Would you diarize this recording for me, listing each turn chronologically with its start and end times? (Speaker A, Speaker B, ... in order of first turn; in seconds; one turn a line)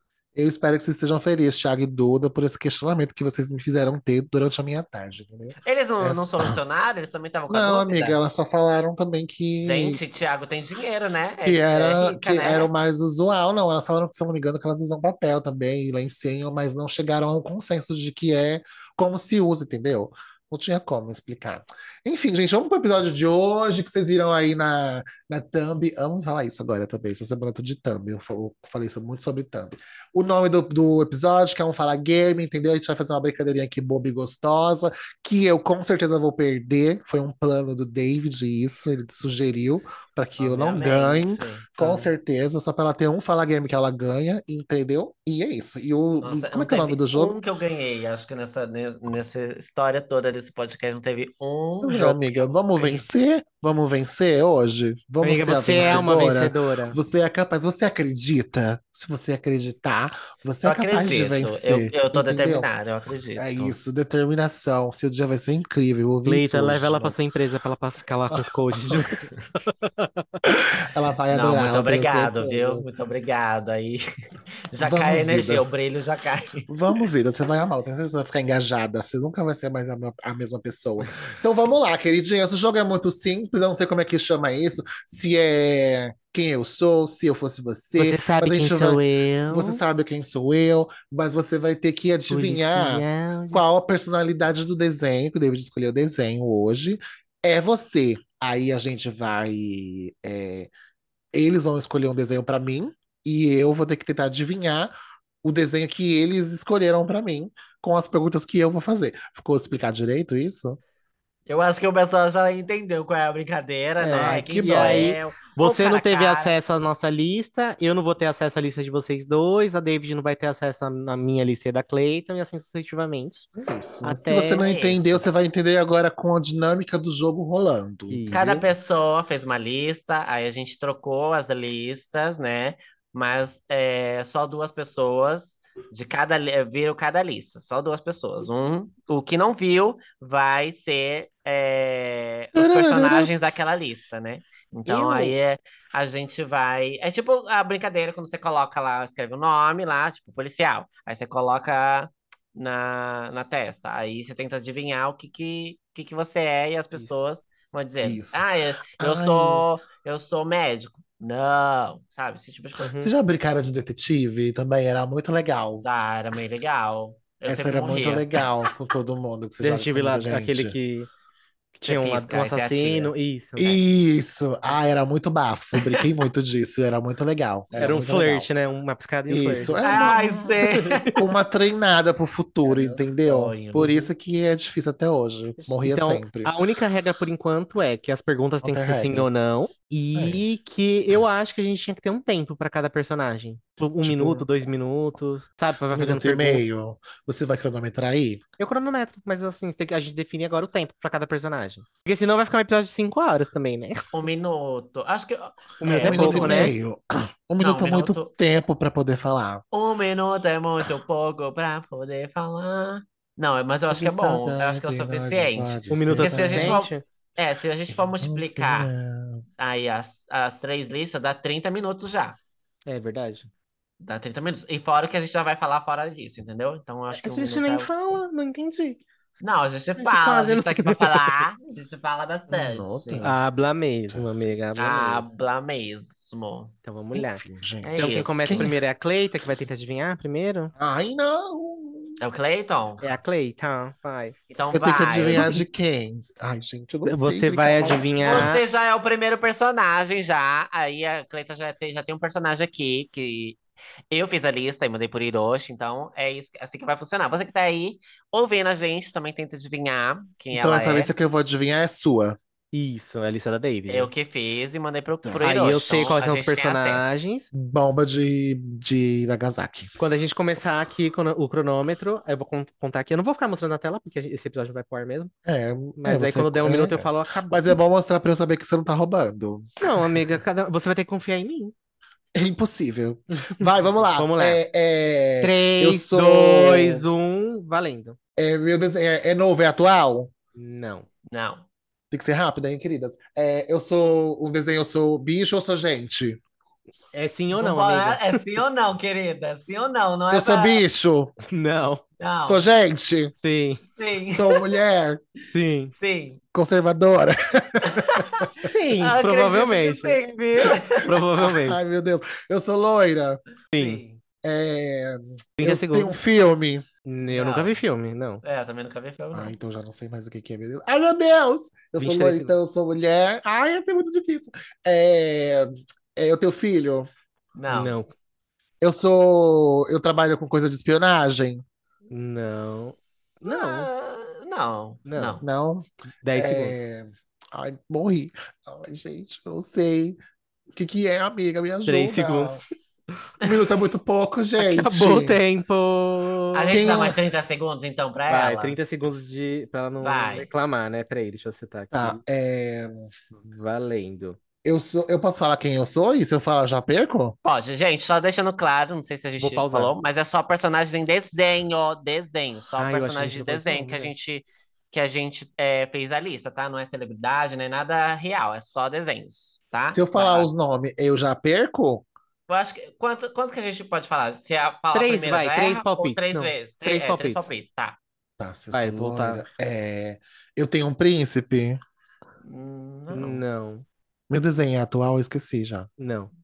Speaker A: 0.3-6.6
Speaker B: 5.6-8.2
Speaker A: 7.5-10.0
Speaker B: 9.6-12.7
Speaker A: 11.4-47.4
Speaker B: 40.4-42.1
Speaker B: 46.2-53.1
Speaker A: 51.8-62.7
Speaker C: 55.2-57.0
Speaker B: 55.7-56.1
Speaker B: 60.6-63.8
Speaker A: 63.4-67.2
Speaker C: 66.2-70.4
Speaker A: 70.5-72.9
Speaker B: 71.3-74.0
Speaker B: 74.7-76.7
Speaker A: 74.8-75.7
Speaker A: 76.7-100.7
Speaker C: 88.0-89.8
Speaker C: 92.3-93.6
Speaker A: 101.3-104.9
Speaker A: 105.4-110.8
Speaker B: 111.5-116.5
Speaker C: 114.0-123.5
Speaker A: 114.2-115.1
Speaker A: 123.5-128.7
Speaker C: 124.0-124.7
Speaker B: 124.6-125.3
Speaker C: 128.1-128.6
Speaker B: 128.3-163.0
Speaker A: 142.6-143.3
Speaker C: 144.9-145.4
Speaker A: 158.0-158.4
Speaker A: 159.0-159.7
Speaker C: 162.8-163.1
Speaker A: 163.0-165.8
Speaker B: 165.8-168.5
Speaker A: 167.4-170.8
Speaker C: 169.6-171.1
Speaker C: 171.8-173.8
Speaker B: 171.9-173.1
Speaker A: 173.6-178.5
Speaker B: 175.8-176.0
Speaker C: 177.8-179.8
Speaker A: 179.3-180.6
Speaker B: 179.8-181.1
Speaker C: 180.6-181.2
Speaker A: 181.1-186.5
Speaker B: 182.6-184.1
Speaker C: 185.6-196.6
Speaker A: 188.6-189.4
Speaker A: 190.1-190.4
Speaker A: 194.0-194.5
Speaker A: 195.9-198.4
Speaker C: 198.6-204.1
Speaker B: 204.1-206.7
Speaker C: 205.8-206.7
Speaker A: 206.0-209.6
Speaker B: 207.6-208.3
Speaker B: 209.7-218.9
Speaker A: 213.9-216.8
Speaker C: 215.9-217.0
Speaker A: 217.9-219.4
Speaker B: 219.6-222.4
Speaker C: 222.9-223.5
Speaker B: 224.0-228.2
Speaker C: 227.1-229.0
Speaker B: 229.4-233.3
Speaker C: 230.0-231.4
Speaker A: 232.5-233.4
Speaker C: 233.2-235.3
Speaker B: 234.8-236.7
Speaker C: 236.8-237.4
Speaker A: 237.1-238.7
Speaker B: 237.8-238.7
Speaker C: 238.0-240.7
Speaker A: 240.8-242.2
Speaker B: 242.2-243.1
Speaker C: 243.0-244.4
Speaker B: 244.5-245.6
Speaker A: 244.7-248.5
Speaker C: 245.3-245.6
Speaker C: 247.1-248.6
Speaker B: 248.2-261.1
Speaker A: 260.5-262.4
Speaker C: 262.7-264.1
Speaker B: 263.9-267.1
Speaker A: 265.2-265.5
Speaker C: 265.4-267.5
Speaker A: 267.5-269.9
Speaker C: 270.0-275.3
Speaker A: 275.5-279.7
Speaker C: 276.0-277.8
Speaker C: 279.8-281.7
Speaker A: 282.4-287.1
Speaker C: 283.6-284.6
Speaker C: 285.4-288.2
Speaker A: 288.4-290.3
Speaker C: 290.6-291.1
Speaker B: 291.3-291.7
Speaker A: 292.1-296.4
Speaker C: 297.1-298.4
Speaker B: 297.5-300.8
Speaker A: 300.3-301.3
Speaker C: 301.5-302.0
Speaker B: 302.2-302.6
Speaker A: 302.4-303.3
Speaker C: 303.4-303.8
Speaker B: 303.9-304.6
Speaker A: 304.3-305.2
Speaker C: 305.5-305.9
Speaker B: 306.0-306.4
Speaker A: 306.5-308.7
Speaker B: 307.9-311.2
Speaker C: 308.6-310.2
Speaker C: 311.0-311.8
Speaker A: 311.4-313.4
Speaker C: 313.7-314.0
Speaker B: 313.8-314.2
Speaker A: 314.4-316.8
Speaker C: 315.6-316.2
Speaker C: 317.1-318.4
Speaker B: 317.3-317.8
Speaker B: 318.4-319.6
Speaker A: 319.3-327.1
Speaker C: 322.0-322.6
Speaker B: 327.6-328.0
Speaker C: 327.7-328.1
Speaker A: 328.8-331.6
Speaker C: 332.1-333.9
Speaker B: 332.5-335.4
Speaker C: 335.1-335.4
Speaker A: 335.4-340.2
Speaker C: 336.2-336.8
Speaker A: 340.8-342.6
Speaker C: 341.9-342.6
Speaker A: 343.4-345.4
Speaker C: 344.6-346.9
Speaker B: 346.5-348.8
Speaker A: 346.7-347.2
Speaker C: 348.3-352.2
Speaker B: 350.0-350.5
Speaker A: 351.9-353.1
Speaker C: 353.3-354.4
Speaker A: 354.6-357.4
Speaker B: 357.4-370.5
Speaker C: 359.4-359.9
Speaker C: 362.8-364.1
Speaker A: 369.9-372.1
Speaker B: 372.5-378.0
Speaker C: 374.9-377.5
Speaker A: 378.4-381.8
Speaker C: 378.7-379.5
Speaker B: 382.4-383.4
Speaker C: 383.1-383.9
Speaker A: 384.3-385.9
Speaker C: 386.0-386.3